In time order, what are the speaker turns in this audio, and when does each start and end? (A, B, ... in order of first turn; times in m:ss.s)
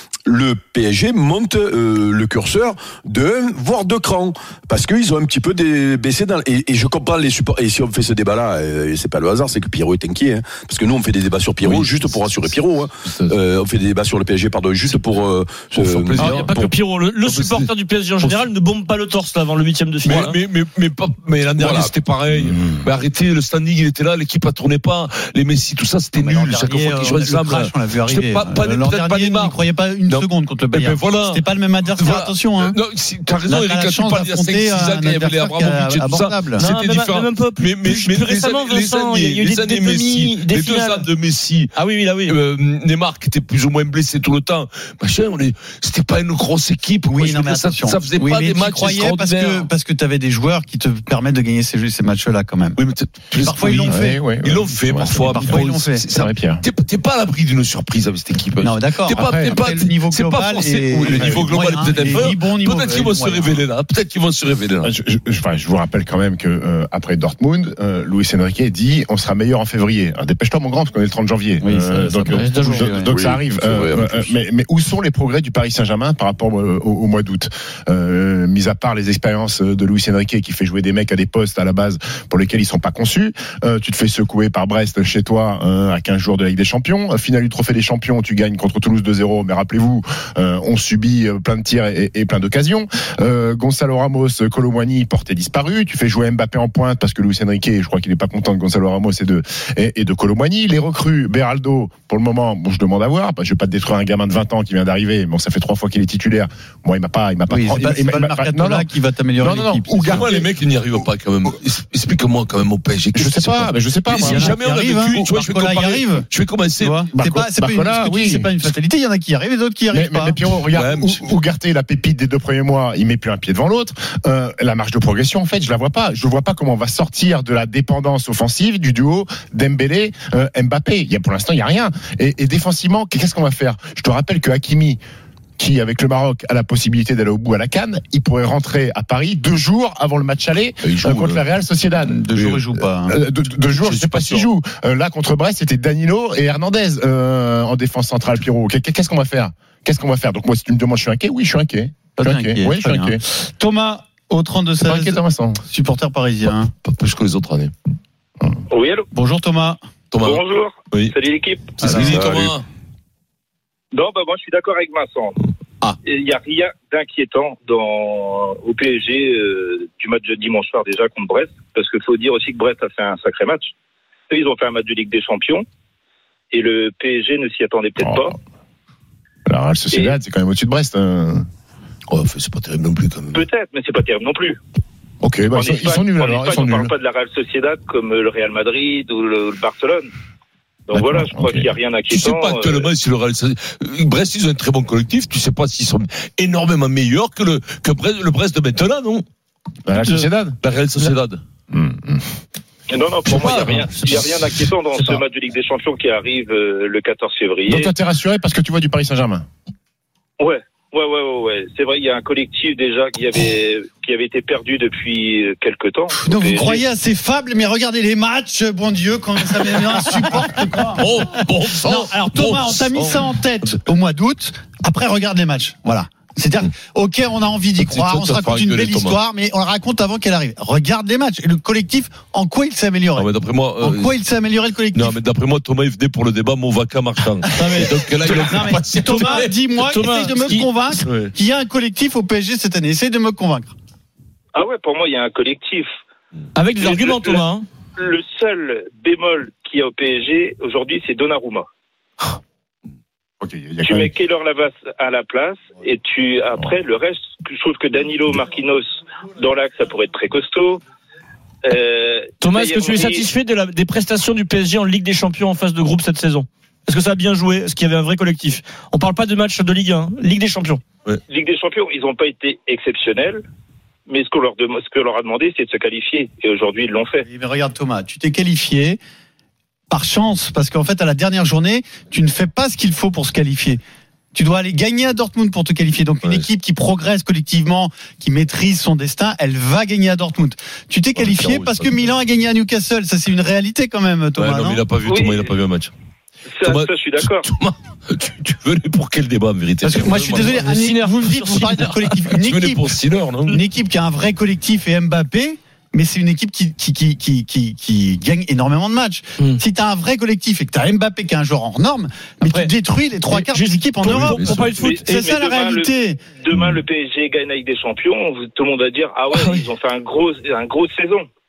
0:00.2-0:16.7 A
0:11.6-0:13.4 B
0:14.8-0:15.2 B
0:15.7-0:16.6 B
0:16.2-0:20.4 C
0:17.2-0:17.7 B
0:20.0-0:31.4 B
0:21.6-0:21.9 A
0:22.4-0:22.8 D
0:26.2-0:32.8 E
0:31.9-0:49.7 B
0:33.4-0:36.6 E
0:36.6-0:41.1 C
0:41.7-0:42.4 C
0:47.1-0:52.8 E
0:52.8-1:04.9 B
0:53.4-0:54.2 E
0:53.8-0:56.6 D
0:55.0-0:56.0 E
0:58.6-1:03.6 E
0:59.1-0:59.6 D
1:01.1-1:01.6 D
1:04.8-1:50.5 D
1:11.6-1:13.1 E
1:13.1-1:14.1 A
1:47.5-1:50.3 E
1:50.1-1:57.1 B
1:53.1-1:54.6 D
1:54.2-1:56.3 E
1:56.8-2:00.4 E
1:57.1-1:58.5 D
1:59.9-2:15.0 D
2:00.7-2:01.3 B
2:15.6-2:33.2 D
2:20.8-2:21.4 B
2:22.0-2:23.2 E
2:23.6-2:24.5 B
2:32.2-2:36.7 E
2:34.8-2:35.6 D
2:36.8-2:37.7 B
2:38.7-2:39.0 F
2:39.1-2:39.8 E
2:40.1-2:41.1 B
2:40.2-2:41.7 F
2:41.8-2:42.6 B
2:41.8-2:42.1 E
2:42.1-2:42.5 A
2:43.9-2:45.3 F
2:46.0-2:53.7 F
2:54.3-2:55.6 F
2:56.5-2:58.3 F
2:58.0-2:58.3 D
2:59.5-3:01.4 D
3:02.1-3:03.4 B
3:03.4-3:04.6 F
3:05.2-3:06.9 D
3:05.6-3:10.1 F
3:10.9-3:12.8 F
3:10.9-3:11.7 D
3:12.0-3:19.2 B
3:19.8-3:20.6 D
3:20.0-3:21.4 B
3:21.7-3:22.2 D
3:22.9-3:27.7 F
3:23.2-3:25.2 B
3:23.4-3:23.9 D
3:27.6-3:29.4 D
3:30.4-3:36.8 F
3:36.1-3:55.2 E
3:41.0-3:43.8 B
3:47.8-3:49.2 B
3:53.2-3:54.2 B
3:54.9-4:01.3 B
3:57.5-4:03.7 E
3:59.1-4:00.7 C
4:04.5-4:05.9 F
4:06.5-4:07.6 C
4:08.0-4:11.6 F
4:13.4-4:14.1 D
4:13.9-4:20.8 F
4:21.6-4:22.8 F
4:22.4-4:30.8 C
4:31.3-4:33.4 F
4:34.1-4:37.2 F
4:37.2-4:39.0 E
4:39.9-4:43.8 E
4:44.3-4:54.8 E
4:51.2-4:52.1 B
4:54.4-4:55.9 B
4:56.6-5:03.6 B
4:56.6-4:57.2 F
4:59.8-5:02.9 E
5:00.5-5:01.8 C
5:03.5-5:16.2 E
5:12.4-5:12.7 C
5:13.3-5:15.2 C
5:14.0-5:14.7 B
5:15.2-5:15.8 F
5:16.4-5:21.3 F
5:19.3-5:19.7 C